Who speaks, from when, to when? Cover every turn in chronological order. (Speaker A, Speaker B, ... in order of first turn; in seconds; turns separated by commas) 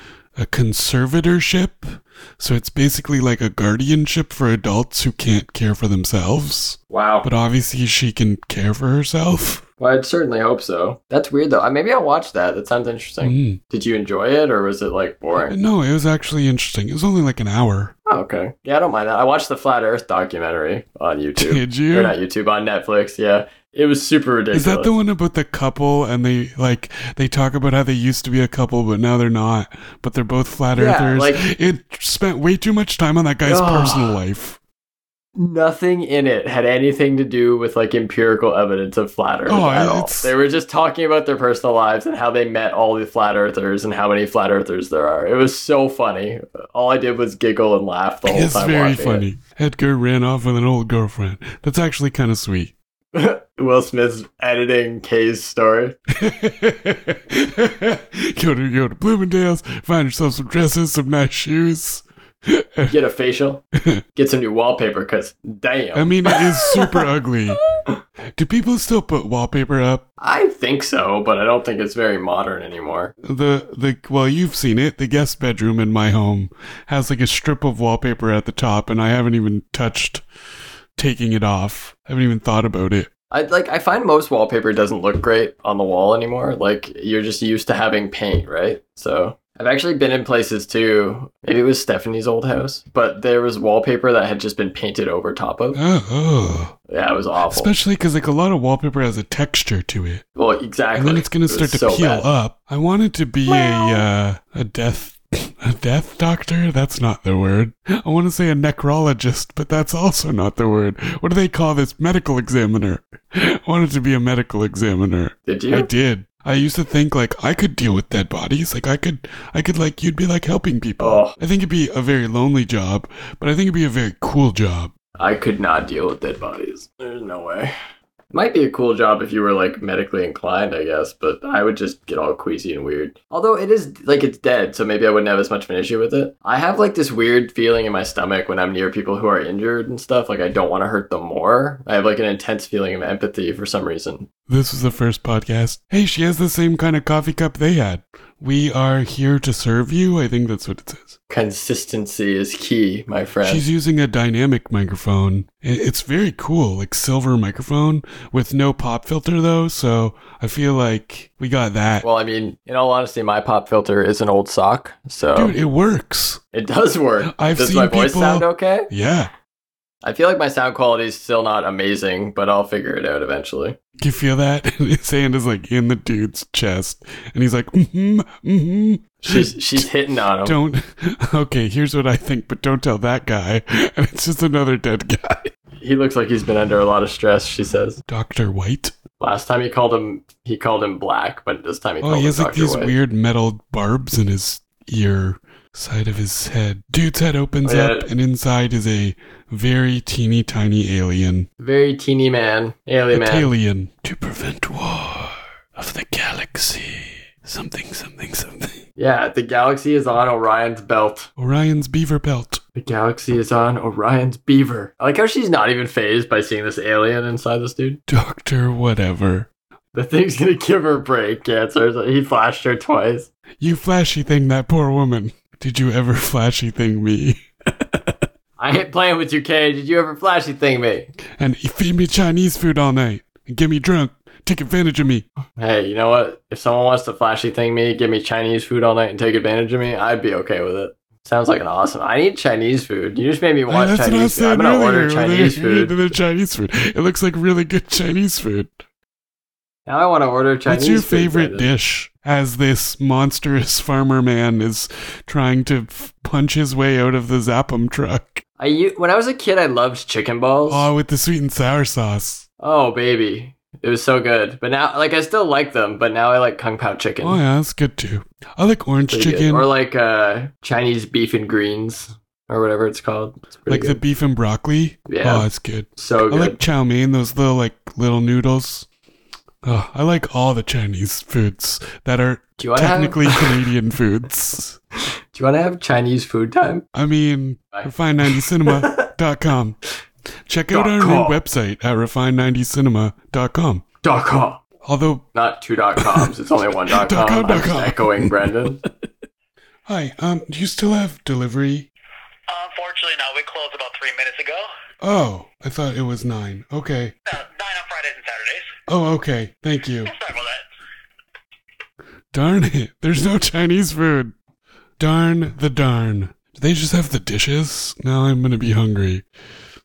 Speaker A: 0.4-9.6, Speaker B: 6.9-7.3, Speaker B: 9.8-15.6, Speaker A: 13.2-13.6, Speaker A: 15.5-17.9, Speaker B: 18.1-24.9, Speaker A: 21.4-22.1, Speaker A: 24.5-34.6, Speaker B: 30.7-31.4, Speaker B: 33.4-34.2, Speaker B: 35.4-49.2, Speaker A: 39.5-40.3, Speaker A: 48.2-52.7, Speaker B: 53.1-56.0, Speaker A: 56.1-62.9, Speaker B: 62.9-63.6, Speaker B: 64.1-67.0, Speaker A: 65.9-67.6, Speaker A: 68.3-70.0, Speaker B: 70.2-73.1, Speaker A: 73.2-80.2, Speaker A: 81.0-83.1, Speaker B: 83.3-95.8, Speaker A: 95.7-96.7, Speaker B: 96.9-97.7, Speaker A: 97.5-100.2, Speaker B: 100.3-102.3, Speaker A: 100.9-124.9, Speaker B: 103.5-104.0, Speaker B: 115.5-115.9, Speaker B: 121.0-121.4, Speaker B: 125.2-127.7, Speaker B: 128.3-144.3, Speaker A: 144.5-151.2, Speaker B: 151.3-153.6, Speaker A: 153.4-162.1, Speaker B: 162.0-165.6, Speaker A: 165.3-166.4, Speaker B: 166.5-168.9, Speaker A: 167.3-169.3, Speaker B: 170.0-173.8, Speaker A: 174.0-179.9, Speaker B: 179.2-180.6, Speaker A: 180.4-185.5, Speaker B: 185.8-188.0, Speaker A: 188.1-188.9, Speaker B: 189.2-192.9, Speaker A: 192.0-201.5, Speaker B: 197.6-198.1, Speaker B: 201.6-203.5, Speaker A: 203.1-208.8, Speaker B: 209.0-211.3, Speaker A: 211.4-212.6, Speaker B: 212.8-218.0, Speaker A: 218.1-219.5, Speaker B: 219.9-223.3, Speaker A: 223.6-228.2, Speaker B: 228.6-231.1, Speaker A: 231.4-235.2, Speaker B: 235.6-246.0, Speaker A: 243.7-248.8, Speaker B: 249.8-251.7, Speaker A: 250.7-258.4, Speaker B: 258.6-260.9, Speaker A: 260.7-262.4, Speaker B: 262.6-267.4, Speaker A: 267.2-269.7, Speaker B: 269.1-274.0, Speaker A: 273.7-278.9, Speaker B: 275.1-276.6, Speaker A: 279.6-284.8, Speaker B: 282.6-283.6, Speaker B: 285.3-286.9, Speaker A: 286.9-289.8, Speaker B: 287.7-289.1, Speaker A: 290.5-293.8, Speaker B: 290.7-291.4, Speaker B: 294.0-294.6, Speaker A: 294.8-295.2, Speaker B: 295.3-298.8, Speaker A: 295.9-296.3, Speaker A: 296.9-298.9, Speaker A: 299.9-301.9, Speaker C: 302.5-304.7, Speaker A: 305.0-307.1, Speaker C: 307.3-308.8, Speaker A: 308.9-310.1, Speaker C: 310.1-310.6, Speaker A: 312.3-314.3, Speaker A: 315.0-319.2